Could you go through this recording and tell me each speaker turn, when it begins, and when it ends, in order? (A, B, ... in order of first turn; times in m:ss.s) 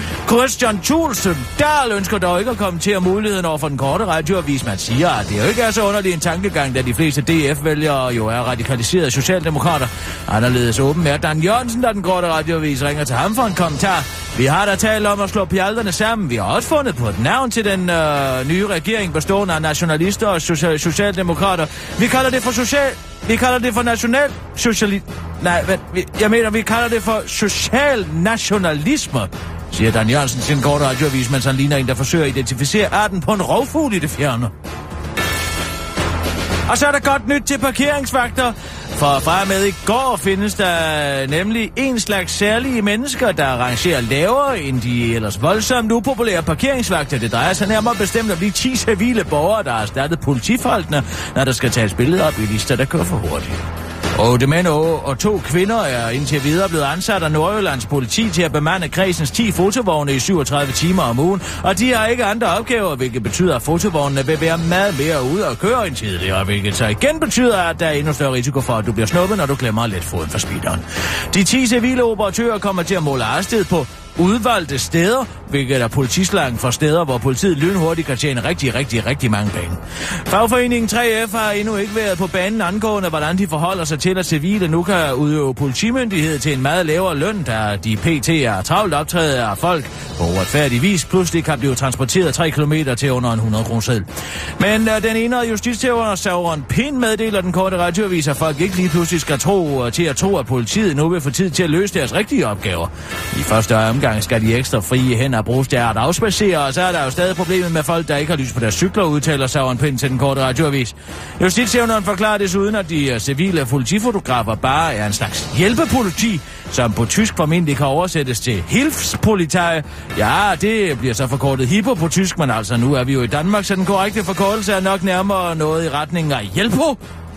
0:00.2-0:34.5 A
0:36.7-0:53.6 A
0:54.1-2:07.0 A